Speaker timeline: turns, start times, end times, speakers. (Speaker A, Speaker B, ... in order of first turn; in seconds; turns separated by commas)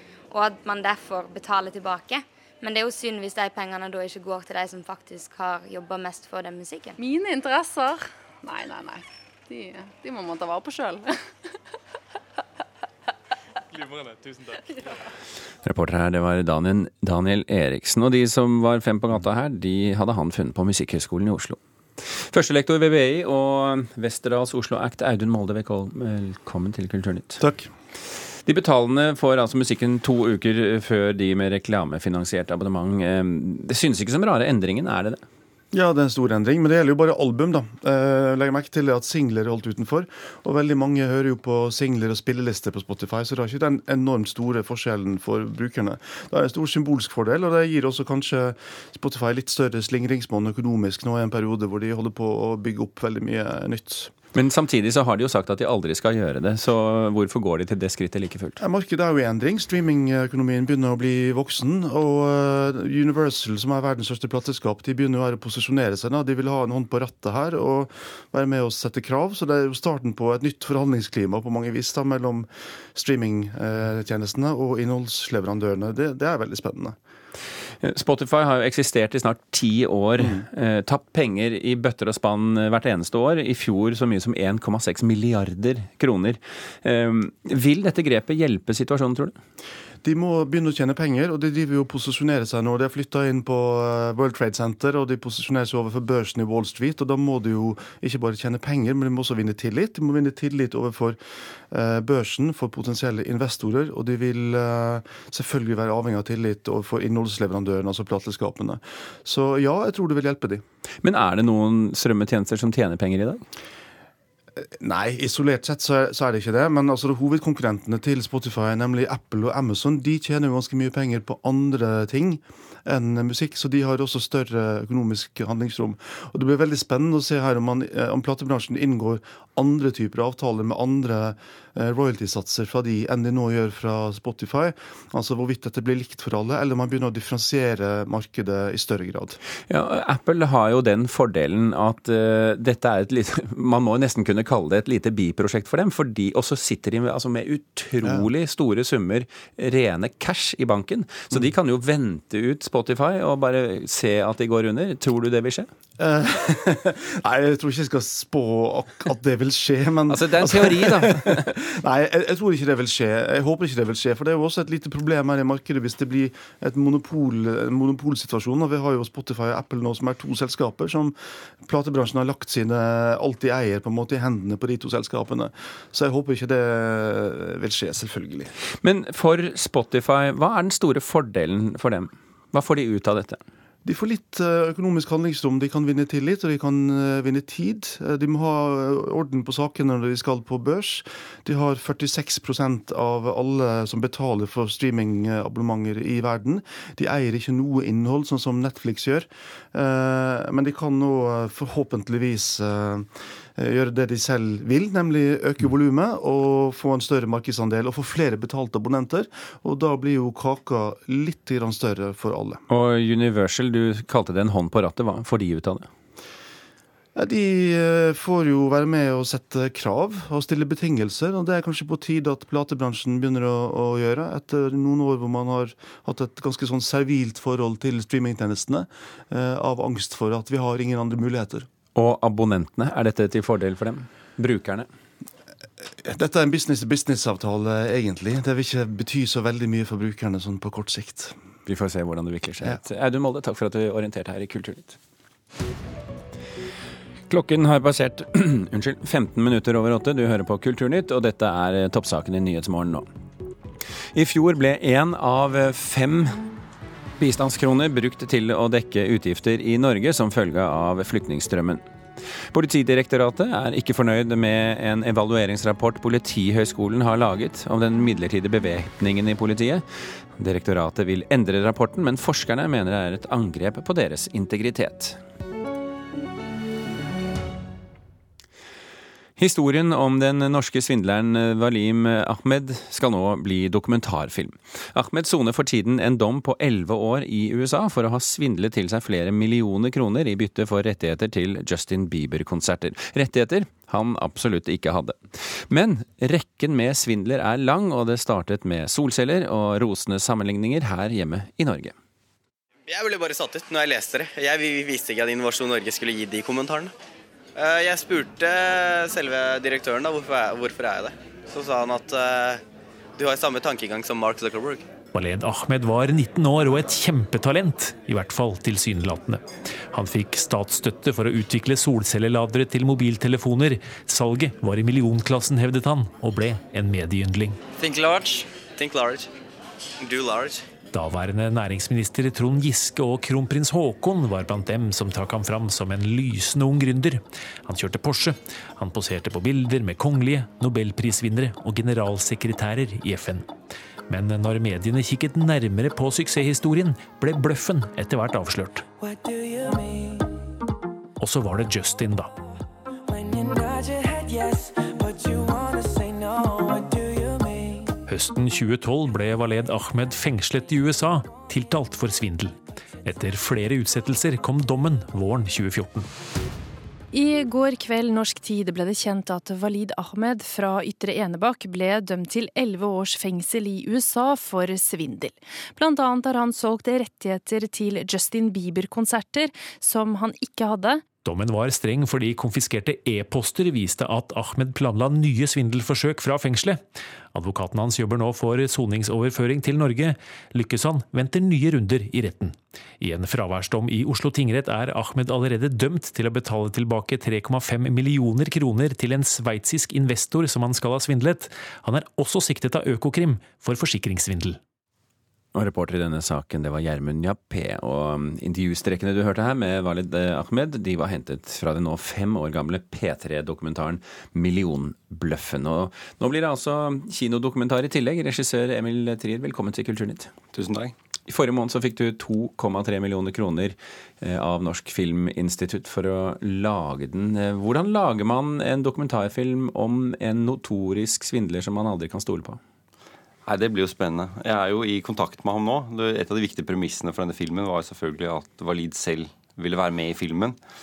Speaker A: 0.3-7.0, Speaker B: 7.0-11.1, Speaker C: 13.9-14.4, Speaker D: 15.6-27.4, Speaker E: 27.4-27.7, Speaker D: 28.5-35.2, Speaker E: 35.7-54.1, Speaker D: 54.4-58.6, Speaker E: 58.6-77.0, Speaker D: 77.8-89.4, Speaker E: 90.0-101.2, Speaker E: 101.7-110.6, Speaker D: 111.0-113.5, Speaker E: 114.7-139.4, Speaker D: 139.7-155.7, Speaker E: 156.0-178.5, Speaker D: 160.1-161.5, Speaker D: 178.8-183.4, Speaker E: 183.8-212.6, Speaker D: 212.7-215.9, Speaker E: 217.2-231.7, Speaker D: 231.9-234.9, Speaker E: 236.0-241.4, Speaker D: 241.7-245.0, Speaker D: 247.3-253.1, Speaker D: 254.1-256.4, Speaker D: 257.2-261.8, Speaker D: 262.5-269.9, Speaker D: 270.4-275.2, Speaker D: 279.4-301.9, Speaker F: 302.9-306.9, Speaker F: 307.6-312.6, Speaker F: 313.2-314.9, Speaker G: 315.1-327.6, Speaker F: 327.8-329.3, Speaker F: 330.0-330.6, Speaker G: 330.9-343.5, Speaker G: 344.1-348.9, Speaker C: 349.0-350.4, Speaker G: 351.2-352.3, Speaker C: 353.1-358.0, Speaker G: 358.1-366.1, Speaker H: 367.1-381.1, Speaker G: 381.2-386.8, Speaker G: 387.3-404.6, Speaker D: 405.5-420.3, Speaker I: 420.5-420.9, Speaker D: 421.3-432.6, Speaker I: 433.4-440.6